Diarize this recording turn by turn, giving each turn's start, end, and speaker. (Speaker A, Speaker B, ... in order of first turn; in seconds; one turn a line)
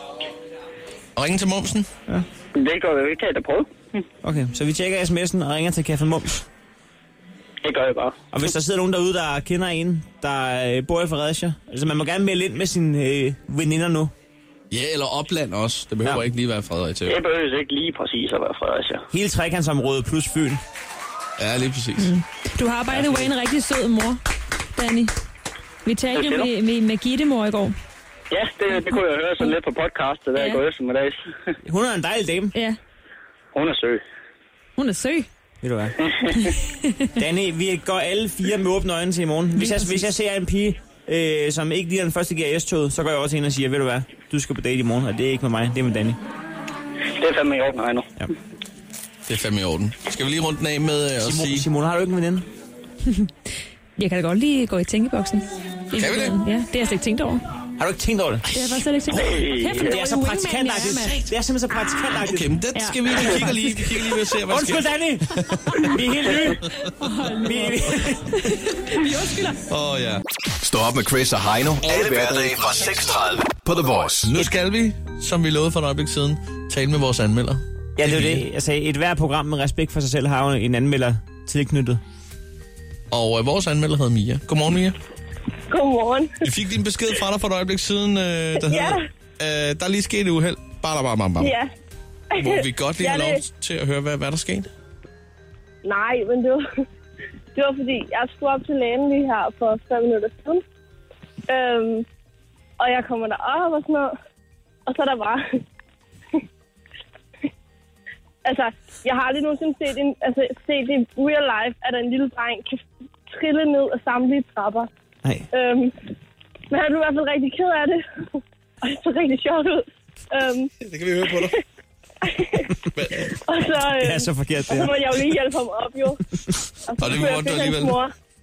Speaker A: 1.1-1.9
Speaker B: 2.5-3.9
Speaker C: 4.2-6.4
Speaker B: 7.6-8.2
Speaker C: 8.3-14.1
Speaker A: 14.7-17.2
Speaker B: 17.1-19.1
Speaker C: 19.1-20.6
Speaker A: 21.4-22.1
Speaker D: 22.0-24.2
Speaker C: 22.9-23.3
Speaker D: 24.7-25.1
Speaker D: 25.8-27.7
Speaker B: 26.1-26.5
Speaker B: 28.3-31.3
Speaker D: 30.3-30.6
Speaker C: 31.6-32.5
Speaker B: 33.5-34.0
Speaker D: 34.8-35.3
Speaker C: 35.6-36.0
Speaker B: 36.0-36.3
Speaker D: 36.4-37.0
Speaker C: 37.1-46.2
Speaker D: 39.5-40.1
Speaker B: 47.1-48.1
Speaker A: 49.3-51.7
Speaker C: 51.2-52.5
Speaker D: 53.0-53.3
Speaker D: 54.0-57.4
Speaker A: 55.9-56.4
Speaker C: 57.8-58.5
Speaker D: 58.5-61.3
Speaker B: 59.2-59.9
Speaker C: 59.7-62.5
Speaker A: 62.2-65.9
Speaker D: 62.7-64.1
Speaker C: 64.5-66.7
Speaker A: 66.5-66.9
Speaker D: 66.9-69.6
Speaker C: 67.4-68.3
Speaker A: 69.7-70.2
Speaker E: 70.6-74.3
Speaker A: 71.9-72.5
Speaker A: 74.3-78.4
Speaker C: 78.0-82.0
Speaker A: 83.1-85.0
Speaker F: 85.7-86.4
Speaker A: 86.4-91.5
Speaker F: 88.6-89.0
Speaker F: 91.4-91.7
Speaker F: 92.3-93.4
Speaker A: 92.4-94.7
Speaker F: 95.8-96.7
Speaker F: 97.5-100.6
Speaker F: 101.5-102.0
Speaker F: 102.8-104.1
Speaker F: 104.8-105.6
Speaker F: 108.4-114.9
Speaker F: 115.5-115.9
Speaker F: 116.7-118.0
Speaker F: 118.8-120.7
Speaker A: 120.8-121.5
Speaker F: 121.3-121.5
Speaker F: 122.2-122.7
Speaker A: 122.9-123.3
Speaker F: 123.3-126.2
Speaker C: 123.9-125.0
Speaker F: 126.9-128.1
Speaker A: 127.0-128.0